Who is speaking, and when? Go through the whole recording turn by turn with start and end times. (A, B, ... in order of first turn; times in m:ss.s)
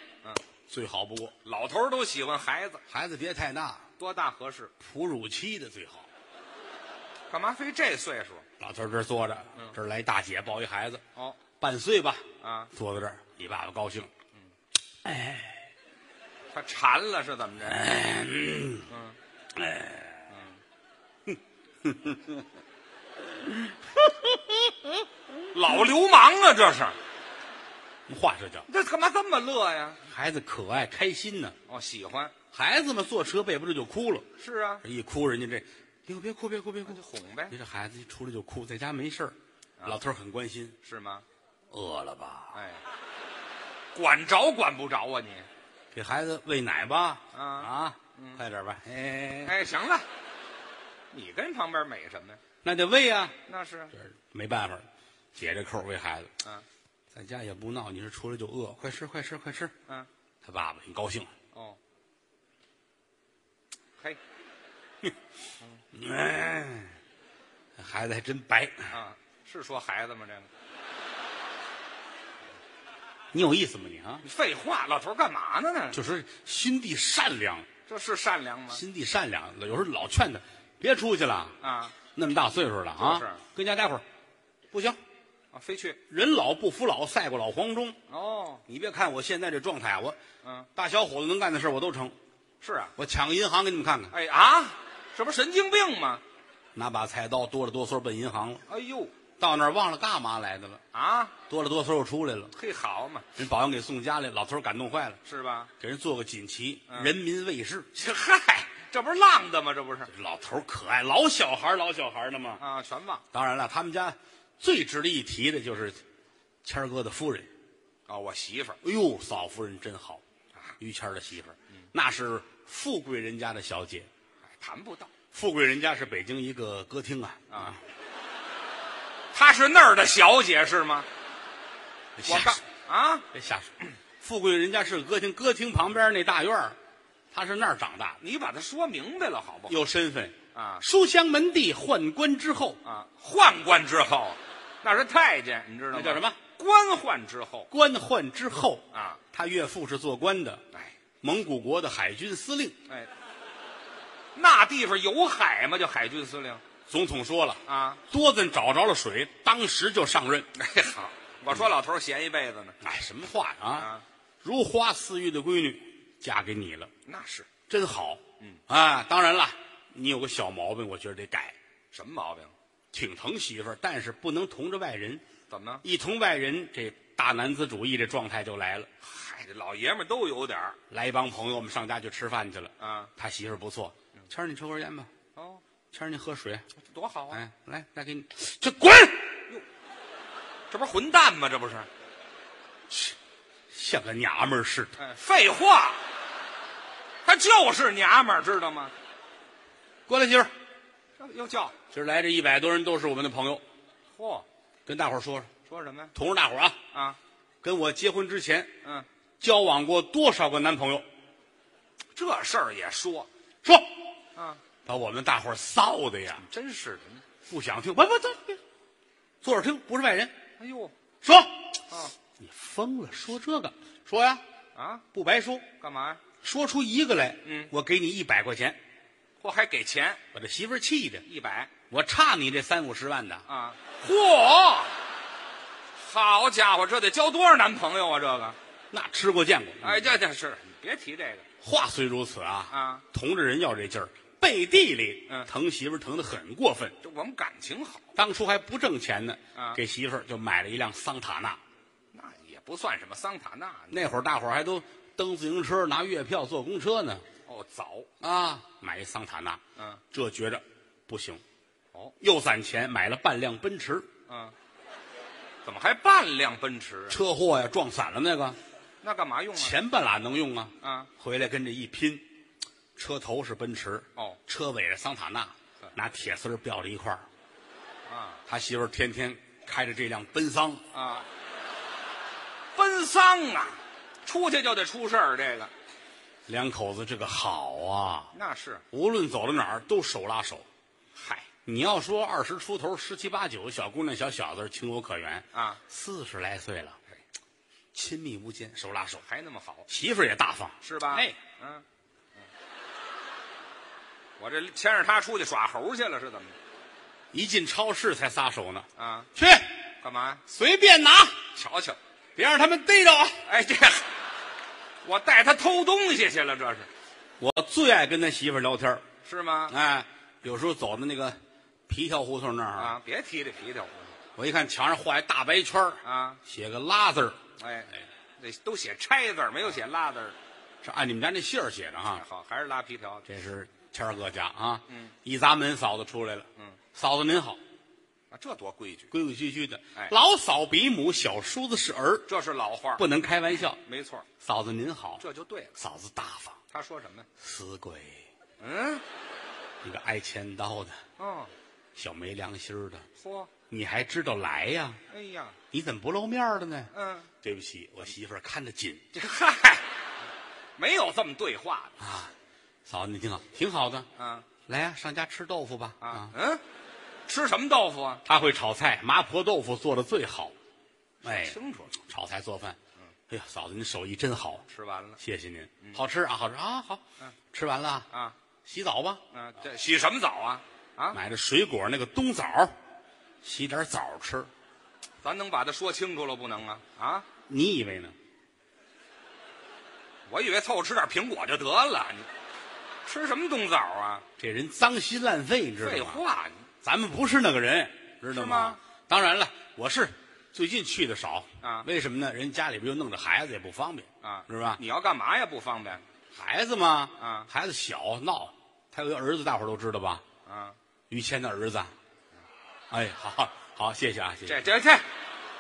0:00.7-0:01.3 A
0:01.4-0:02.8 B
0:02.9-0:03.8 A
0:04.0-0:04.7 B
0:04.8-0:06.1 A
0:07.3-0:08.4 B
0:08.6-0:11.0 A
0:11.6-0:14.1 A
0:12.4-0:12.7 B
0:15.0-0:15.6 A
0:16.5-0:17.8 B
0:17.6-0:18.9 A
0:18.9-0:19.2 B
0:19.5-0:20.3 A
0:20.3-0:20.6 B
0:21.2-0:22.4 A
0:23.4-0:24.7 A
0:25.5-0:27.0 B
0:28.1-0:28.7 A
0:28.7-0:30.0 B
0:30.1-0:31.6 A
0:31.7-0:32.3 B
0:32.5-0:34.2 A
0:34.4-0:34.8 B
0:34.8-0:40.8 A
0:36.8-0:37.5 B
0:40.8-0:41.2 B
0:41.7-0:42.6 A
0:42.5-0:42.8 B
0:43.9-0:45.5 B
0:45.9-0:49.6 A
0:47.3-0:48.4 B
0:49.4-0:50.0 B
0:51.1-0:52.4 B
0:52.6-0:53.3 A
0:53.4-0:53.9 B
0:53.9-0:56.3 A
0:57.1-0:59.7 A
1:00.4-1:01.3 A
1:01.5-1:01.8 B
1:05.9-1:07.0 A
1:07.8-1:08.9 A
1:08.9-1:10.5 B
1:13.3-1:14.2 A
1:14.2-1:16.0 B
1:15.9-1:17.7 A
1:17.8-1:18.8 B
1:18.7-1:21.6 A
1:21.6-1:21.9 B
1:22.1-1:24.0 A
1:23.0-1:23.4 B
1:24.7-1:25.0 A
1:25.5-1:26.0 B
1:26.1-1:28.0 A
1:28.1-1:28.6 B
1:28.7-1:30.2 A
1:30.4-1:30.7 B
1:30.8-1:32.2 A
1:32.6-1:32.9 B
1:33.0-1:34.1 A
1:34.1-1:36.2 B
1:36.7-1:38.6 A
1:38.7-1:39.1 B
1:39.4-1:40.8 A
1:40.9-1:41.3 B
1:41.5-1:42.5 A
1:42.5-1:43.2 B
1:43.4-1:45.2 A
1:45.2-1:45.7 B
1:45.8-1:47.9 A
1:46.9-1:47.1 B
1:47.9-1:50.1 B
1:50.1-1:52.6 A
1:52.6-1:53.2 B
1:53.3-1:56.0 A
1:56.6-1:57.5 A
1:58.1-1:58.8 B
1:58.8-2:00.2 A
2:00.8-2:04.1 A
2:04.4-2:05.1 B
2:05.3-2:07.8 A
2:07.5-2:07.8 B
2:09.3-2:11.1 B
2:12.2-2:12.6 A
2:12.3-2:13.3 B
2:13.3-2:16.8 A
2:17.3-2:18.2 A
2:18.2-2:19.8 B
2:19.7-2:22.8 A
2:20.5-2:20.8 B
2:22.8-2:27.7 B
2:25.9-2:26.4 A
2:27.7-2:30.6 A
2:28.9-2:29.2 B
2:31.2-2:32.8 A
2:34.3-2:36.6 B
2:36.9-2:40.5 A
2:37.6-2:38.0 B
2:40.5-2:42.8 B
2:42.8-2:43.9 A
2:43.7-2:44.0 B
2:44.4-2:46.9 A
2:47.0-2:47.5 B
2:47.7-2:51.6 A
2:51.9-2:52.5 B
2:52.9-2:55.2 A
2:55.5-2:55.8 B
2:55.8-2:58.9 A
2:59.0-3:00.8 B
3:00.9-3:05.1 A
3:02.8-3:03.1 B
3:05.4-3:05.6 B
3:05.9-3:06.6 A
3:06.8-3:07.4 B
3:07.3-3:09.4 A
3:10.7-3:11.9 B
3:12.9-3:13.2 A
3:13.7-3:15.0 A
3:15.0-3:16.0 B
3:17.2-3:18.9 B
3:20.1-3:20.5 A
3:21.2-3:21.8 B
3:21.9-3:23.6 A
3:24.1-3:24.4 B
3:24.8-3:25.5 A
3:25.6-3:26.1 B
3:26.1-3:26.8 A
3:26.9-3:27.2 B
3:27.6-3:28.7 A
3:29.4-3:31.0 A
3:32.2-3:33.3 B
3:33.6-3:33.9 A
3:34.4-3:34.6 B
3:34.8-3:36.4 A
3:36.4-3:37.2 B
3:37.5-3:38.6 A
3:39.4-3:40.3 A
3:40.6-3:40.9 B
3:41.2-3:41.7 A
3:42.4-3:44.4 A
3:44.7-3:45.0 B
3:45.1-3:45.7 A
3:45.8-3:46.2 B
3:46.4-3:48.8 A
3:47.4-3:47.7 B
3:49.4-3:50.2 B
3:50.3-3:51.2 A
3:51.2-3:51.7 B
3:51.9-3:53.4 A
3:53.5-3:54.9 B
3:56.0-3:58.6 B
3:58.9-4:00.2 A
3:59.8-4:01.4 B
4:01.6-4:06.9 A
4:02.7-4:03.0 B
4:07.0-4:08.2 B
4:08.2-4:11.6 A
4:09.5-4:09.8 B
4:12.1-4:14.0 B
4:13.9-4:17.2 A
4:17.4-4:18.1 B
4:18.2-4:21.4 A
4:22.2-4:24.1 A
4:24.3-4:24.5 B
4:25.6-4:27.2 B
4:27.1-4:28.6 A
4:29.0-4:29.8 B
4:29.6-4:32.2 A
4:30.8-4:31.1 B
4:33.0-4:37.2 A
4:38.1-4:38.4 B
4:38.5-4:40.8 A
4:40.9-4:41.2 B
4:42.7-4:45.7 B
4:46.5-4:48.3 A
4:48.3-4:48.8 B
4:48.9-4:50.7 A
4:51.1-4:51.5 B
4:51.6-4:57.0 A
4:55.5-4:55.8 B
4:57.9-4:59.2 A
4:59.2-4:59.8 B
4:59.9-5:01.4 A
5:00.8-5:01.8 B
5:04.4-5:06.5 B
5:07.3-5:09.8 A
5:09.0-5:09.3 B
5:10.0-5:10.4 B
5:10.4-5:11.5 A
5:11.5-5:12.0 B
5:12.4-5:13.4 A
5:13.4-5:14.1 B
5:15.0-5:16.9 B
5:17.4-5:19.0 A
5:19.2-5:19.7 B
5:19.7-5:23.0 A
5:22.7-5:24.1 B
5:24.4-5:27.4 A
5:26.0-5:26.4 B
5:27.6-5:30.4 B
5:30.8-5:32.2 A
5:32.1-5:33.3 B
5:33.3-5:37.6 A
5:34.9-5:35.1 B
5:38.3-5:39.1 B
5:39.1-5:42.3 A
5:42.3-5:43.0 B
5:43.0-5:43.8 A
5:43.8-5:44.2 B
5:44.4-5:45.2 A
5:45.2-5:45.8 B
5:45.8-5:46.6 A
5:46.7-5:47.3 B
5:47.4-5:48.2 A
5:48.6-5:49.0 B
5:49.8-5:51.0 A
5:51.2-5:51.5 B
5:52.0-5:53.0 A
5:53.2-5:53.5 B
5:53.7-5:55.0 A
5:55.1-5:55.6 B
5:55.7-5:56.9 A
5:56.9-5:57.3 B
5:57.4-5:59.0 A
5:59.1-5:59.8 B
6:00.8-6:02.0 B
6:02.0-6:02.3 A
6:02.8-6:04.1 A
6:04.2-6:04.5 B
6:04.6-6:06.3 A
6:06.0-6:06.6 B
6:07.3-6:08.2 B
6:08.2-6:10.5 A
6:11.2-6:12.0 B
6:11.2-6:12.8 A
6:13.3-6:14.6 A
6:14.7-6:15.2 B
6:15.2-6:18.1 A
6:18.1-6:18.4 B
6:18.6-6:19.2 A
6:19.3-6:21.2 B
6:21.1-6:22.8 A
6:23.4-6:24.5 A
6:25.2-6:27.2 B
6:27.4-6:28.1 A
6:30.3-6:32.3 B
6:33.0-6:34.2 B
6:34.4-6:36.2 A
6:35.8-6:36.6 B
6:36.8-6:44.8 A
6:38.3-6:38.8 B
6:41.6-6:41.9 B
6:44.2-6:46.0 B
6:46.3-6:50.2 A
6:47.2-6:47.5 B
6:50.4-6:50.8 B
6:51.1-6:51.9 A
6:52.9-6:54.7 A
6:54.4-6:55.0 B